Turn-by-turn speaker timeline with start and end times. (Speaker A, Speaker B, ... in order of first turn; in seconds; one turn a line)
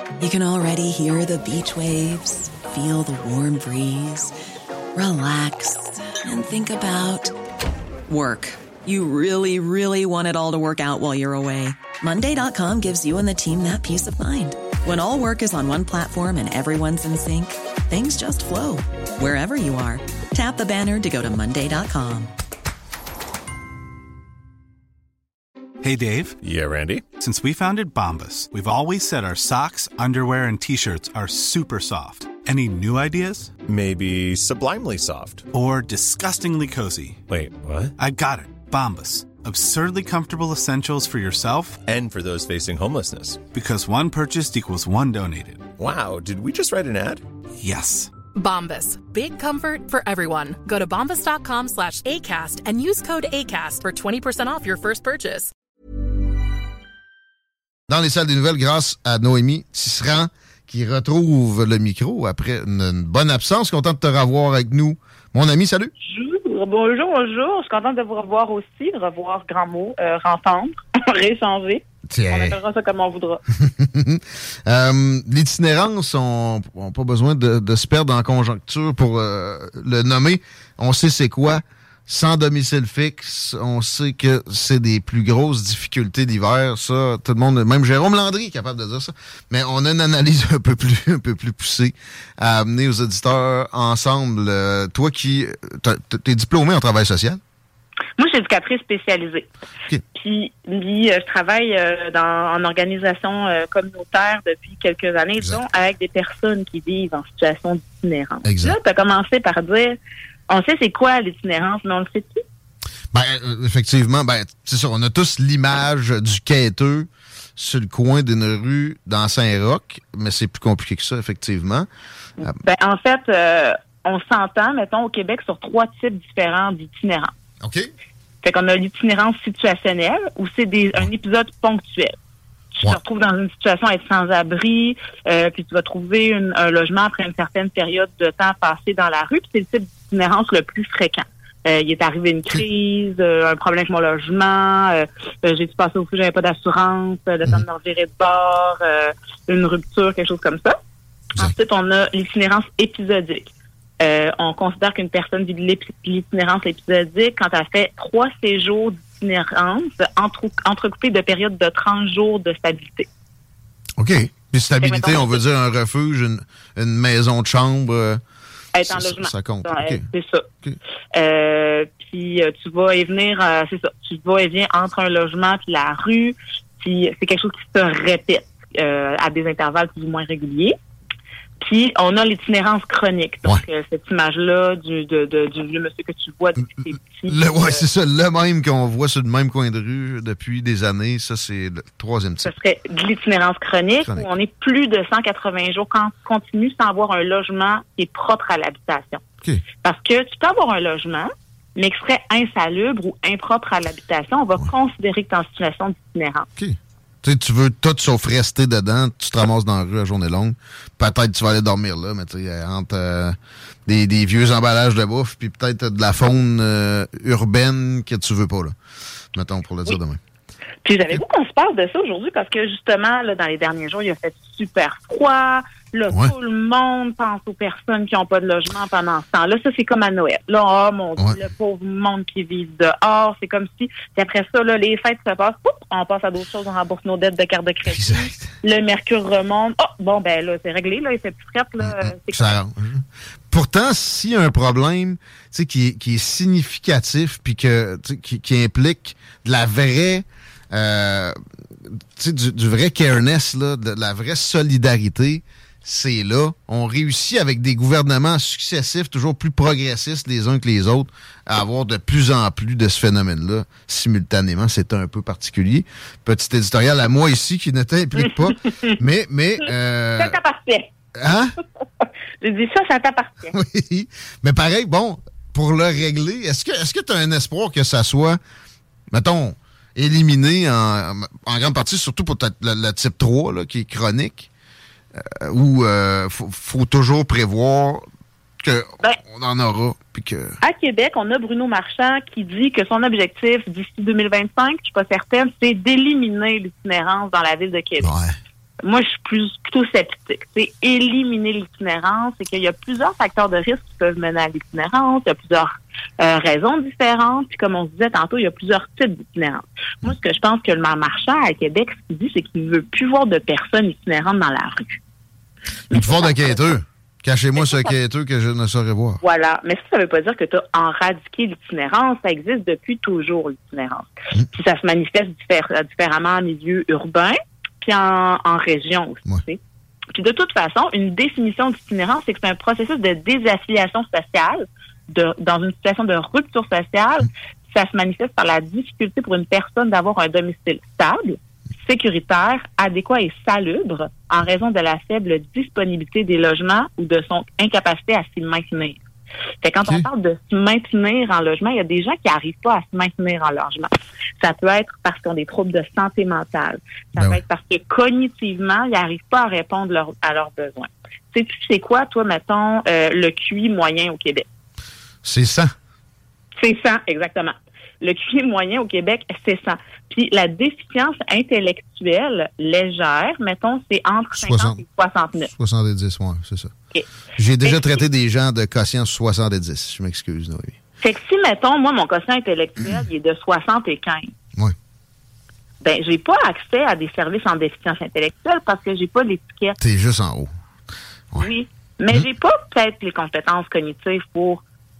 Speaker A: 0.2-4.3
Speaker A: 4.9-7.3
Speaker A: 8.1-22.3
Speaker B: 25.8-26.4
Speaker C: 26.4-27.0
Speaker B: 27.2-33.5
Speaker C: 33.6-35.5
Speaker B: 35.5-37.2
Speaker C: 37.3-37.9
Speaker B: 38.0-41.8
Speaker C: 41.8-43.4
Speaker B: 43.5-45.7
Speaker C: 45.8-47.2
Speaker B: 47.6-48.1
Speaker D: 48.3-55.5
Speaker E: 57.9-65.9
Speaker F: 66.0-73.4
Speaker E: 72.1-72.6
Speaker E: 73.6-97.4
Speaker F: 98.2-99.5
Speaker F: 100.1-110.0
Speaker E: 108.4-108.8
Speaker F: 110.5-112.4
Speaker E: 113.1-121.9
Speaker F: 122.4-127.3
Speaker E: 127.6-127.9
Speaker F: 128.4-132.2
Speaker F: 132.7-150.8
Speaker F: 151.4-153.5
Speaker F: 154.0-163.1
Speaker E: 164.0-168.2
Speaker F: 164.8-165.4
Speaker F: 168.7-170.4
Speaker E: 168.8-170.0
Speaker F: 171.1-180.7
Speaker F: 181.6-187.8
Speaker E: 187.3-192.5
Speaker F: 192.4-199.2
Speaker F: 199.8-206.5
Speaker E: 206.6-218.8
Speaker E: 219.3-220.2
Speaker F: 220.8-242.6
Speaker E: 237.9-238.5
Speaker E: 241.8-270.4
Speaker F: 268.2-269.0
Speaker F: 270.2-270.9
Speaker E: 271.1-271.6
Speaker F: 272.4-273.5
Speaker E: 273.5-278.4
Speaker E: 279.1-284.5
Speaker E: 285.2-288.1
Speaker E: 288.6-290.6
Speaker F: 290.6-298.1
Speaker E: 298.0-298.3
Speaker F: 298.8-314.9
Speaker E: 315.9-319.2
Speaker F: 315.9-316.6
Speaker F: 317.6-317.9
Speaker F: 319.2-329.6
Speaker F: 330.1-349.0
Speaker F: 349.6-364.5
Speaker E: 357.1-357.4
Speaker E: 365.2-365.7
Speaker F: 366.6-375.5
Speaker E: 374.4-374.8
Speaker E: 375.5-376.7
Speaker E: 377.4-380.8
Speaker F: 377.6-377.9
Speaker F: 381.0-384.3
Speaker F: 385.8-389.8
Speaker E: 389.8-390.5
Speaker F: 391.4-394.6